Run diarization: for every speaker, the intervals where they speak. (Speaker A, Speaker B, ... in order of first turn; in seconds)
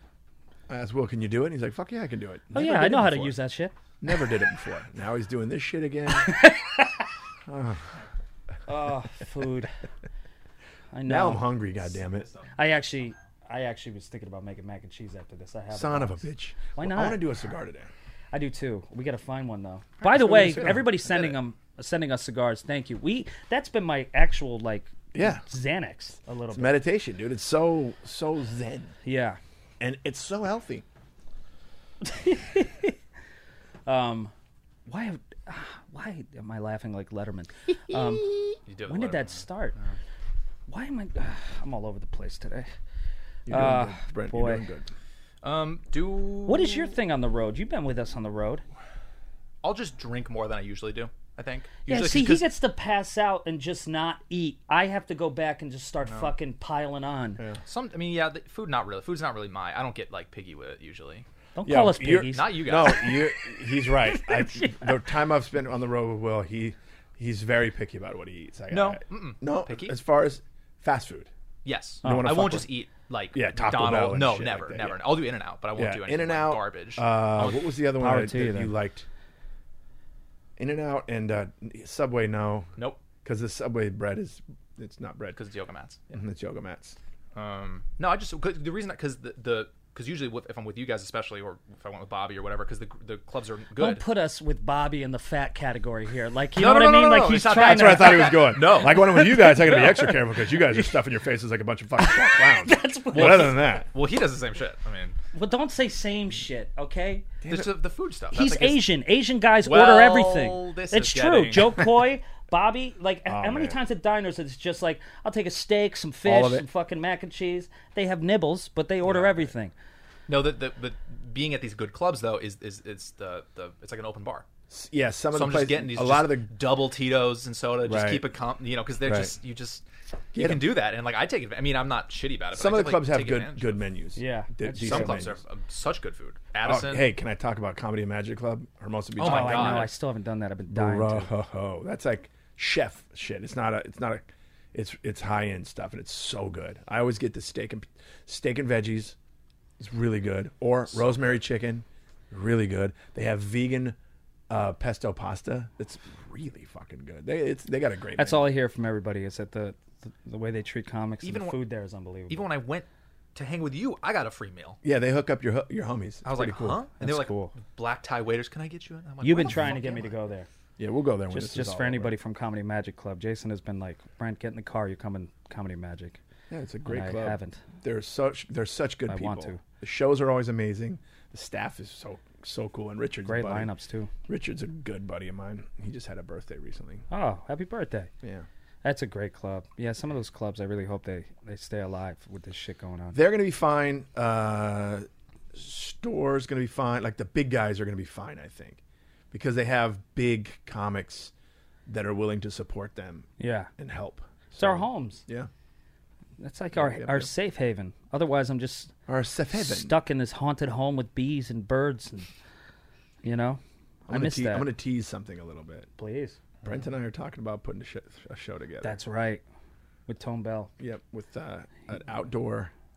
Speaker A: 0.7-3.4, 4.0-6.4, 7.5-7.9, 11.1-12.3, 15.7-17.9, 20.1-20.9, 25.1-25.4, 26.5-28.9, 29.8-30.9, 43.5-44.9, 61.6-71.3, 72.0-72.7, 73.3-75.2, 75.8-79.1, 80.6-82.7, 83.2-85.4, 86.1-87.0, 97.5-103.9, 107.4-107.8, 113.3-113.8, 116.3-116.7, 124.7-126.5, 127.8-128.3, 129.0-129.3, 130.3-130.8, 132.5-135.4, 136.6-139.9, 140.7-149.2, 149.8-154.0, 154.5-158.5, 164.8-166.8, 170.8-172.2, 176.5-183.7, 184.3-187.0, 193.1-198.8, 199.3-201.3, 201.9-205.5, 206.8-207.3, 209.1-209.9, 214.1-215.9, 216.6-219.0, 220.8-222.7
Speaker B: 2.5-3.7, 6.1-7.1, 8.7-9.7, 10.9-11.5, 12.6-17.2, 18.3-26.8, 29.0-29.4, 32.0-33.0, 33.9-34.3, 34.9-39.8, 40.7-42.7, 43.5-44.6, 46.5-48.6, 51.9-57.4, 61.6-63.2, 63.9-65.0, 72.0-72.4, 78.0-78.7, 93.8-100.9, 102.0-103.5, 105.3-107.3, 108.3-119.7, 134.2-135.3, 139.2-141.3, 158.2-162.5, 167.0-167.5, 169.2-170.5, 171.3-176.2, 176.8-177.6, 179.1-179.6, 183.2-184.1, 187.1-188.1, 188.8-193.2, 203.4-203.7, 204.6-205.2, 206.4-208.9, 209.5-212.3, 213.2-214.7, 216.0-216.4, 218.8-219.4, 220.1-220.7
Speaker C: 12.0-12.5, 20.2-21.4, 38.7-40.0, 45.4-46.9, 49.6-52.5, 56.1-56.3, 57.6-61.2, 62.3-63.2, 68.7-70.0, 71.6-77.7, 85.3-86.0, 87.3-94.0, 96.6-99.8, 103.1-105.2, 107.5-108.9, 109.6-111.9, 120.3-124.5, 125.3-133.8, 134.7-137.1, 139.2-139.9, 161.2-161.6, 162.3-164.8, 166.2-170.2